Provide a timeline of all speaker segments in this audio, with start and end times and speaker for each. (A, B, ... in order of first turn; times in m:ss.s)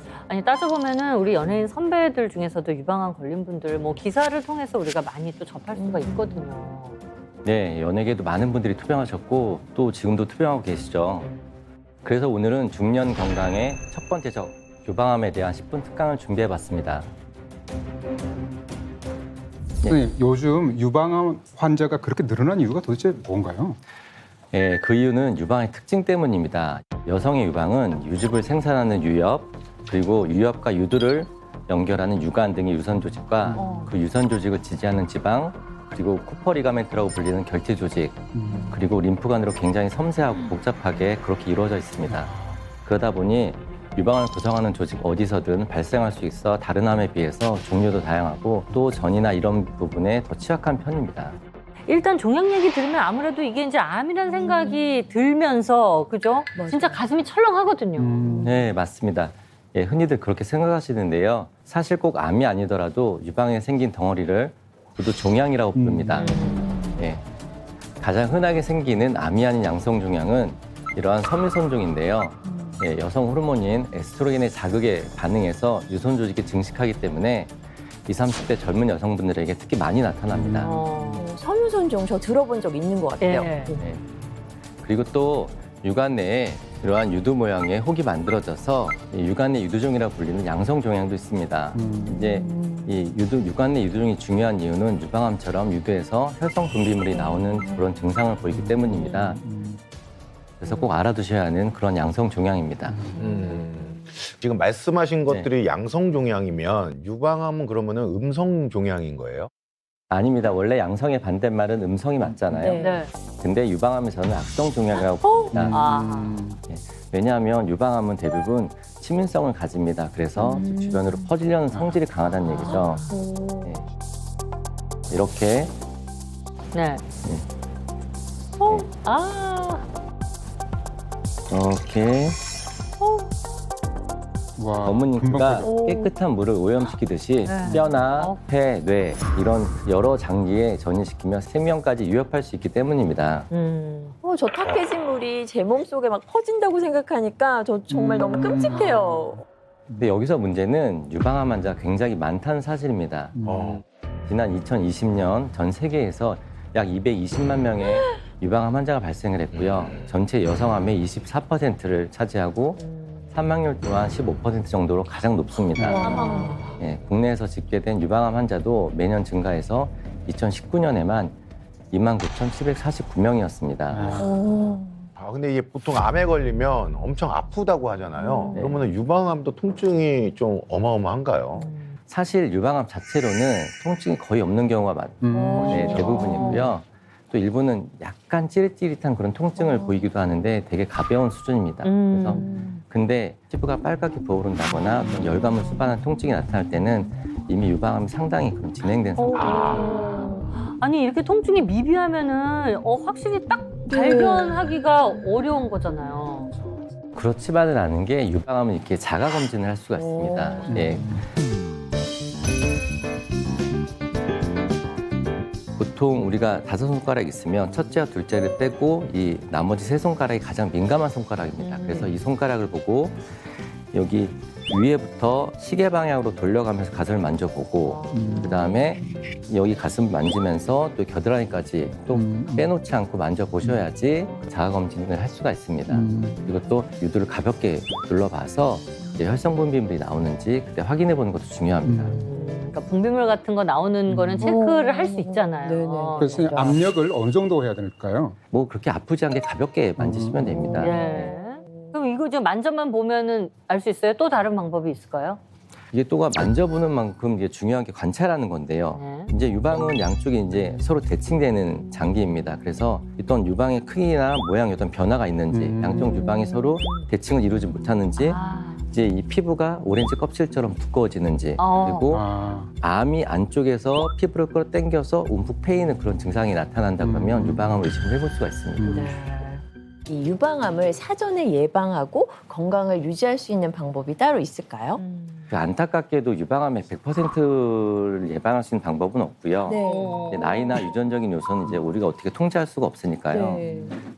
0:00.3-0:07.0 A
0:05.7-0:06.5 B
0:07.4-0:11.3 C
0:12.0-0:17.1 C
0:19.8-0:23.8 D
0:24.5-0:51.4 C
0:33.5-0:33.8 D
0:33.5-0:33.9 A
0:38.3-0:38.8 D
0:42.0-0:42.6 D
0:51.9-0:58.3 A
0:54.3-0:54.8 B
0:56.5-0:57.0 B
0:58.0-0:58.7 D
0:58.4-1:07.2 C
1:05.7-1:06.4 D
1:06.1-1:06.6 A
1:06.4-1:07.0 B
1:08.0-1:17.5 C
1:12.5-1:12.8 B
1:18.0-1:20.7 C
1:20.3-1:21.2 D
1:20.6-1:21.2 A
1:21.2-1:23.8 B
1:23.2-1:23.8 A
1:23.8-1:24.0 C
1:24.8-1:39.4 C
1:31.7-1:32.2 D
1:32.0-1:33.0 B
1:37.1-1:37.8 B
1:38.5-1:39.8 D
1:40.6-1:43.0 C
1:42.9-1:43.3 D
1:43.2-1:49.5 E
1:43.3-1:43.6 B
1:50.1-1:52.9 C
1:52.5-1:53.0 B
1:52.8-1:53.1 A
1:53.4-1:55.8 C
1:55.2-1:55.5 B
1:55.5-1:56.6 D
1:55.7-1:56.4 A
1:56.7-2:03.0 C
2:00.4-2:01.3 B
2:00.4-2:00.7 A
2:01.7-2:02.0 D
2:02.3-2:03.2 A
2:02.7-2:03.8 B
2:05.1-2:05.7 C
2:06.7-2:07.0 A
2:08.6-2:09.8 A
2:11.5-2:12.4 C
2:14.6-2:15.9 D
2:14.8-2:23.5 C
2:15.6-2:16.1 B
2:17.4-2:18.4 A
2:17.7-2:17.9 D
2:23.5-2:24.1 A
2:24.2-2:29.4 B
2:24.5-2:24.9 E
2:27.9-2:30.1 D
2:30.0-2:33.3 C
2:33.3-2:33.8 D
2:33.4-2:33.8 E
2:34.2-2:51.4 C
2:39.5-2:40.2 E
2:42.8-2:43.4 A
2:45.7-2:46.2 D
2:45.8-2:46.8 B
2:46.0-2:46.6 A
2:51.9-2:54.3 C
2:53.9-2:54.4 D
2:54.2-2:55.1 B
2:55.2-3:01.7 E
2:58.2-2:58.7 B
2:58.6-2:58.8 C
3:01.5-3:02.0 A
3:02.1-3:19.6 C
3:05.2-3:06.7 D
3:05.3-3:06.7 B
3:06.4-3:06.6 A
3:09.6-3:10.0 B
3:11.8-3:12.4 A
3:12.3-3:12.8 B
3:19.2-3:26.5 A
3:19.3-3:20.5 B
3:19.4-3:19.8 E
3:23.9-3:24.7 B
3:27.1-3:31.2 C
3:29.9-3:30.9 B
3:30.6-3:31.2 D
3:35.8-3:43.2 C
3:41.7-3:42.1 A
3:43.9-4:02.2 C
3:47.8-3:48.6 A
3:48.1-3:48.6 D
3:48.6-3:49.2 B
3:52.1-3:52.7 D
3:54.2-3:54.5 A
3:55.9-3:56.5 D
4:01.8-4:02.2 D
4:02.1-4:06.5 A
4:02.1-4:02.7 B
4:04.1-4:04.6 D
4:04.4-4:06.9 B
4:06.2-4:08.4 D
4:08.5-4:11.3 C
4:10.0-4:10.6 D
4:10.5-4:12.0 B
4:10.8-4:15.4 A
4:15.9-4:28.4 C
4:18.9-4:19.3 A
4:25.5-4:26.2 D
4:25.9-4:27.1 B
4:28.2-4:28.8 A
4:28.9-4:32.2 C
4:31.6-4:32.1 A
4:32.0-4:32.7 D
4:32.8-4:39.0 C
4:37.0-4:37.8 D
4:38.8-4:39.2 D
4:38.9-4:39.6 A
4:40.0-4:45.0 B
4:45.0-4:45.5 A
4:45.5-4:53.6 C
4:49.7-4:50.4 B
4:49.7-4:50.8 A
4:53.3-4:54.0 B